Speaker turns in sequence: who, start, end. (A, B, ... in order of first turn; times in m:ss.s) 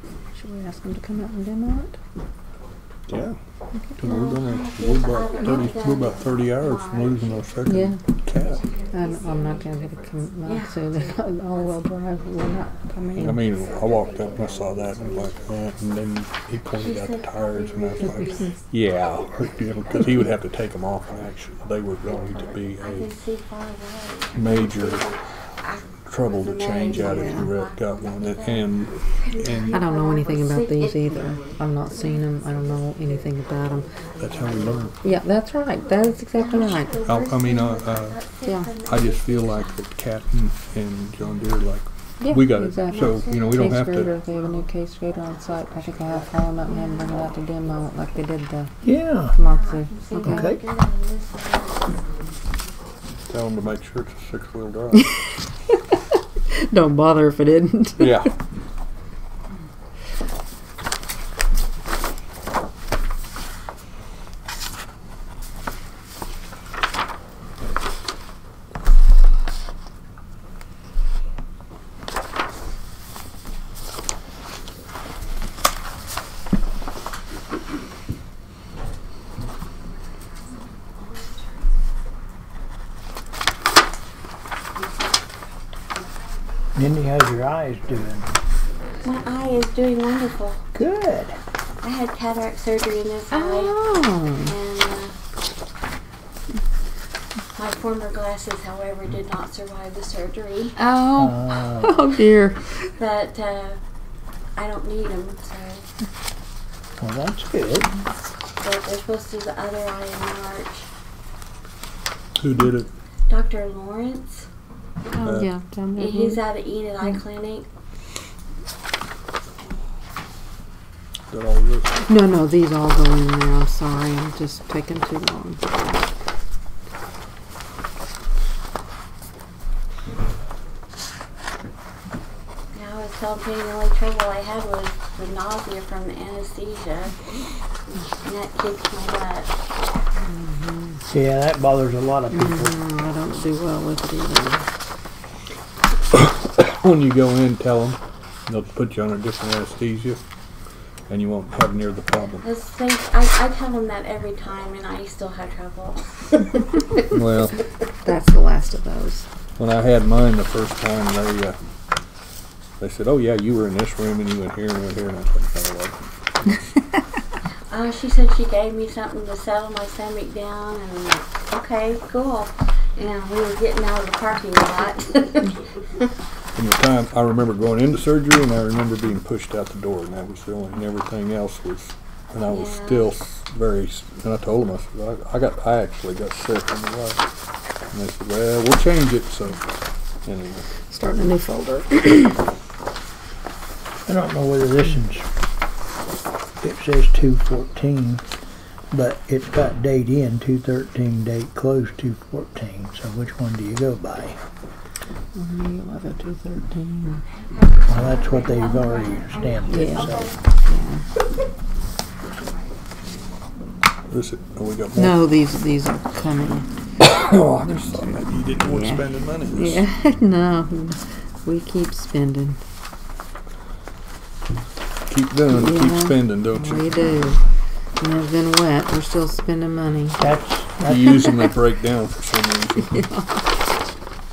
0:00.3-0:02.0 A
0:03.1-0:03.4 B
0:04.0-0:08.7 B
0:04.0-0:07.8 C
0:07.7-0:08.0 A
0:08.4-0:11.7 C
0:08.9-0:13.5 A
0:13.2-0:23.1 B
0:13.3-0:15.5 C
0:16.7-0:18.7 C
0:19.8-0:20.3 C
0:22.1-0:34.8 C
0:24.4-0:25.1 B
0:26.0-0:29.8 B
0:26.9-0:27.5 A
0:29.7-0:33.9 A
0:34.2-0:34.9 B
0:35.0-0:37.0 A
0:36.4-0:39.8 C
0:36.9-0:38.3 B
0:38.8-0:44.2 B
0:42.2-0:48.7 A
0:42.9-0:44.2 C
0:46.6-0:47.2 C
0:48.8-0:49.4 D
0:49.3-0:50.6 A
0:49.4-0:52.0 C
0:50.2-0:50.6 D
0:53.3-0:55.1 B
0:56.5-0:58.3 A
0:58.0-0:58.3 B
1:26.8-1:28.3 D
1:29.0-1:30.6 C
1:30.7-1:31.4 D
1:31.8-1:33.8 C
1:33.3-1:34.5 A
1:34.4-1:35.2 C
1:37.6-1:40.8 C
1:40.8-1:42.6 A
1:41.2-1:42.0 D
1:43.0-1:43.8 C
1:44.6-1:45.8 C
1:47.0-1:47.9 D
1:48.6-1:50.9 C
1:52.4-1:52.9 B
1:53.3-1:54.5 C
1:55.1-1:55.4 C
1:55.1-1:56.4 A
1:55.2-1:55.5 B
1:56.0-1:57.7 C
2:01.3-2:02.0 B
2:02.1-2:06.0 A
2:12.7-2:17.2 C
2:18.2-2:19.5 C
2:20.3-2:21.0 A
2:21.1-2:22.8 D
2:22.3-2:24.7 A
2:26.1-2:30.2 B
2:31.1-2:32.5 B
2:32.4-2:36.5 C
2:37.1-2:37.6 B
2:38.0-2:39.3 A
2:39.6-2:41.6 B
2:42.8-2:46.6 B
2:47.7-2:56.0 C
2:56.6-3:07.2 B
3:02.5-3:03.1 C
3:07.9-3:09.6 B
3:10.2-3:10.7 B
3:10.9-3:12.4 A
3:14.1-3:15.3 D
3:16.6-3:18.2 D
3:18.9-3:24.4 D
3:25.4-3:27.2 A
3:27.2-3:30.4 C
3:27.9-3:30.4 D
3:29.7-3:31.0 A
3:32.2-3:32.7 C
3:34.1-3:35.3 B
3:35.0-3:36.7 A
3:37.0-3:39.8 B
3:38.6-3:42.6 A
3:45.1-3:47.0 B
3:45.5-3:47.4 A
3:48.0-3:50.3 A
3:50.2-3:51.2 D
3:50.8-3:53.1 B
3:52.8-3:53.4 A